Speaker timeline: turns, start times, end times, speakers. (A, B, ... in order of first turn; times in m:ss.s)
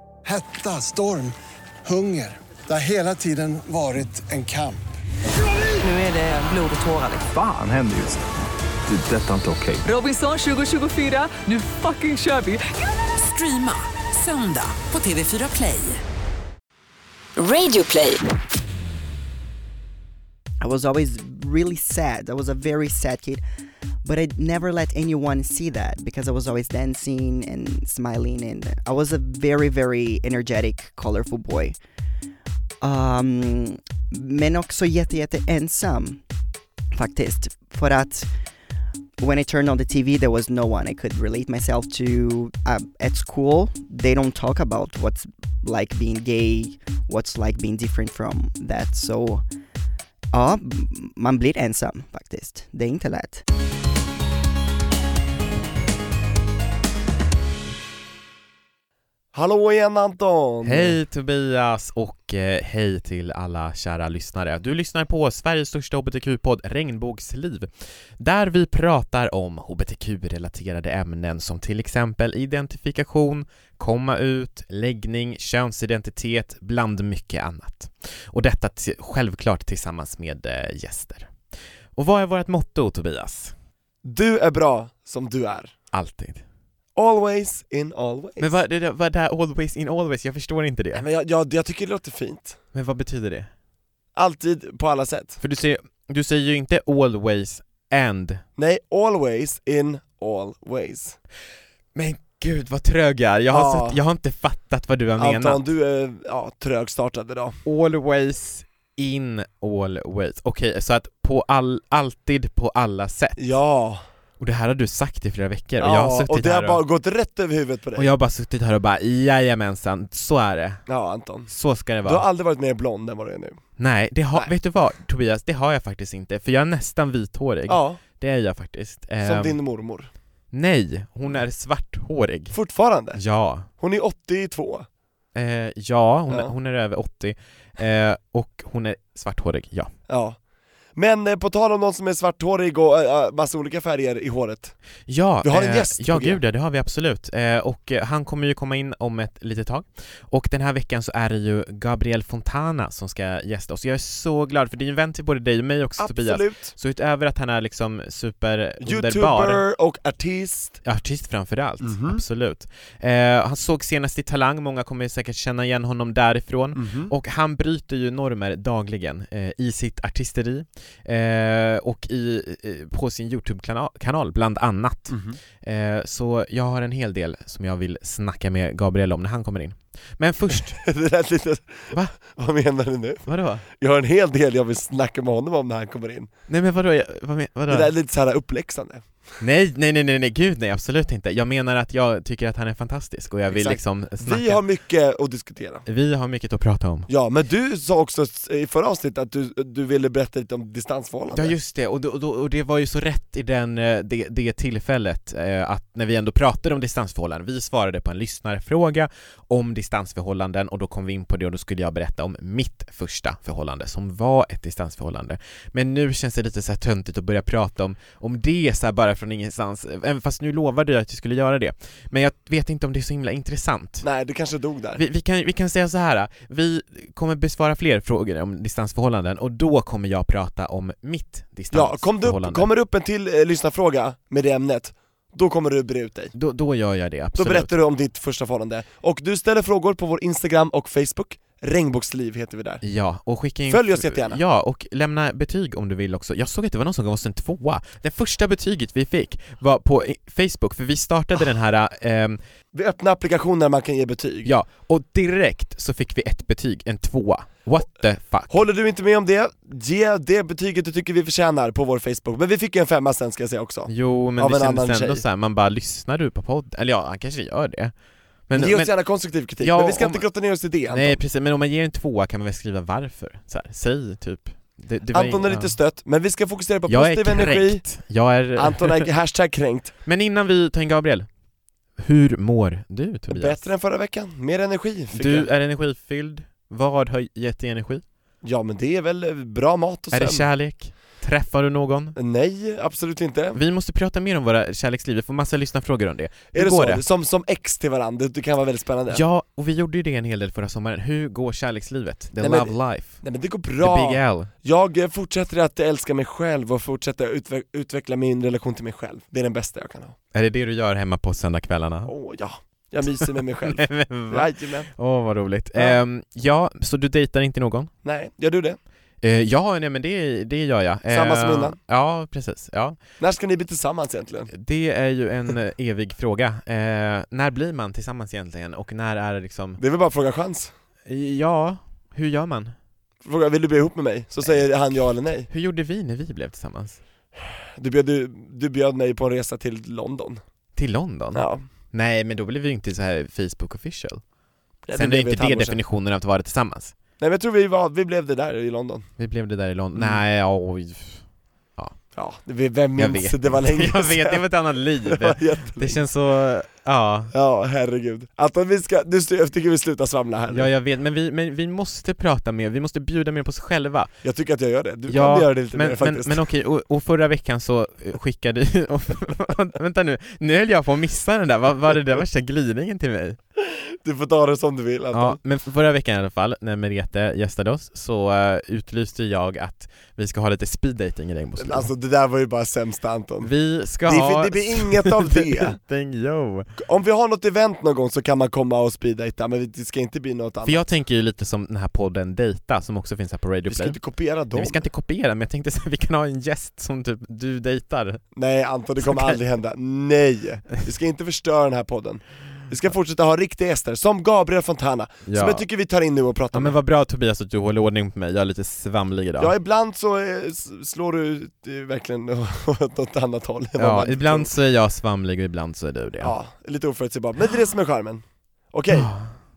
0:00.2-0:01.3 A
0:01.8-0:04.8 A
0:05.8-0:07.3 B
0:07.3-0:08.2 C
0:08.9-0:09.8 C
0:09.8-0:16.0 B
0:17.4-0:18.2 B
0:20.6-0:23.4 D
0:24.0-0:31.8 D
0:32.8-0:36.2 D
0:36.9-0:38.3 D
0:39.2-0:49.4 D
0:50.3-0:53.4 D
0:59.3-1:01.0 E
1:00.6-1:21.3 F
1:22.0-1:23.5 F
1:24.0-1:25.7 E
1:25.9-1:26.4 F
1:27.0-1:28.5 E
1:28.4-1:31.0 F
1:30.9-1:32.6 E
1:32.7-1:33.5 F
1:34.2-1:35.4 E
1:35.4-1:38.4 F
1:38.6-1:41.2 E
1:41.9-1:45.6 F
1:43.5-1:44.0 E
1:45.2-1:47.6 E
1:47.6-1:53.4 F
1:53.4-1:54.0 E
1:54.4-1:56.8 F
1:55.8-1:58.1 E
1:58.0-2:00.8 F
2:00.9-2:01.5 E
2:01.5-2:02.2 F
2:02.0-2:03.6 E
2:03.8-2:09.6 F
2:07.7-2:08.0 E
2:09.2-2:10.1 E
2:10.5-2:12.6 F
2:12.5-2:13.2 E
2:13.1-2:13.7 F
2:13.8-2:14.8 E
2:15.3-2:19.9 F
2:20.1-2:20.4 E
2:21.0-2:24.7 E
2:25.1-2:39.6 F
2:25.4-2:26.4 E
2:36.0-2:36.7 E
2:38.8-2:40.8 E
2:40.8-3:00.8 F
2:41.8-2:42.2 E
2:46.7-2:47.1 E
2:55.1-2:55.4 E
3:00.5-3:06.3 E
3:01.9-3:02.2 F
3:03.3-3:03.6 F
3:06.5-3:07.9 F
3:07.7-3:09.1 E
3:09.4-3:14.6 F
3:13.5-3:15.8 E
3:15.8-3:17.1 F
3:17.1-3:21.6 E
3:21.3-3:44.0 F
3:44.0-3:45.0 E
3:45.0-3:52.7 F
3:51.7-3:56.3 E
3:56.3-3:57.7 F
3:57.4-4:02.8 E
4:02.8-4:12.4 F
4:03.7-4:04.4 E
4:12.7-4:14.5 E
4:14.4-4:18.6 F
4:18.5-4:25.2 E
4:23.9-4:27.9 F
4:28.5-4:30.2 F
4:28.5-4:31.2 E
4:30.9-4:35.7 F
4:35.1-4:37.8 E
4:36.9-4:39.1 F
4:38.6-4:39.9 E
4:40.0-4:41.3 F
4:42.0-4:43.6 F
4:43.3-4:45.5 E
4:45.1-4:48.0 F
4:48.4-4:50.5 E
4:50.1-4:52.2 F
4:52.2-4:53.6 E
4:53.5-4:57.0 F
4:56.5-4:59.2 E
4:59.1-5:03.2 F
5:02.4-5:10.2 E
5:03.8-5:04.5 F
5:10.3-5:12.1 F
5:12.0-5:14.9 E
5:13.2-5:17.9 F
5:18.0-5:18.8 E
5:19.2-5:23.0 F
5:21.1-5:21.8 E
5:23.2-5:24.5 E
5:24.5-5:29.8 F
5:29.8-5:30.7 E
5:31.1-5:32.7 F
5:33.2-5:35.5 E
5:35.5-5:37.0 F
5:37.8-5:40.4 E
5:40.8-5:44.2 F
5:41.3-5:41.6 E
5:44.9-5:45.8 E
5:44.9-5:46.9 F
5:47.2-5:49.0 E
5:49.2-5:51.2 F
5:50.0-5:50.2 E
5:52.2-5:54.4 E
5:52.9-5:57.3 F
5:55.0-5:56.0 E
5:57.3-6:00.7 E
6:00.5-6:04.1 F
6:04.2-6:06.4 E
6:05.1-6:13.4 F
6:13.6-6:15.4 E
6:15.1-6:21.9 F
6:21.6-6:23.5 E
6:23.4-6:26.7 F
6:24.0-6:25.8 E
6:26.8-6:30.8 E
6:30.6-6:34.0 F
6:33.7-6:34.8 E
6:34.5-6:38.2 F
6:38.3-6:46.8 E
6:39.0-6:39.4 F
6:45.2-6:45.6 F
6:46.5-6:49.5 F
6:49.4-6:54.5 E
6:53.8-6:56.3 F
6:56.2-6:59.1 E
6:58.9-6:59.3 F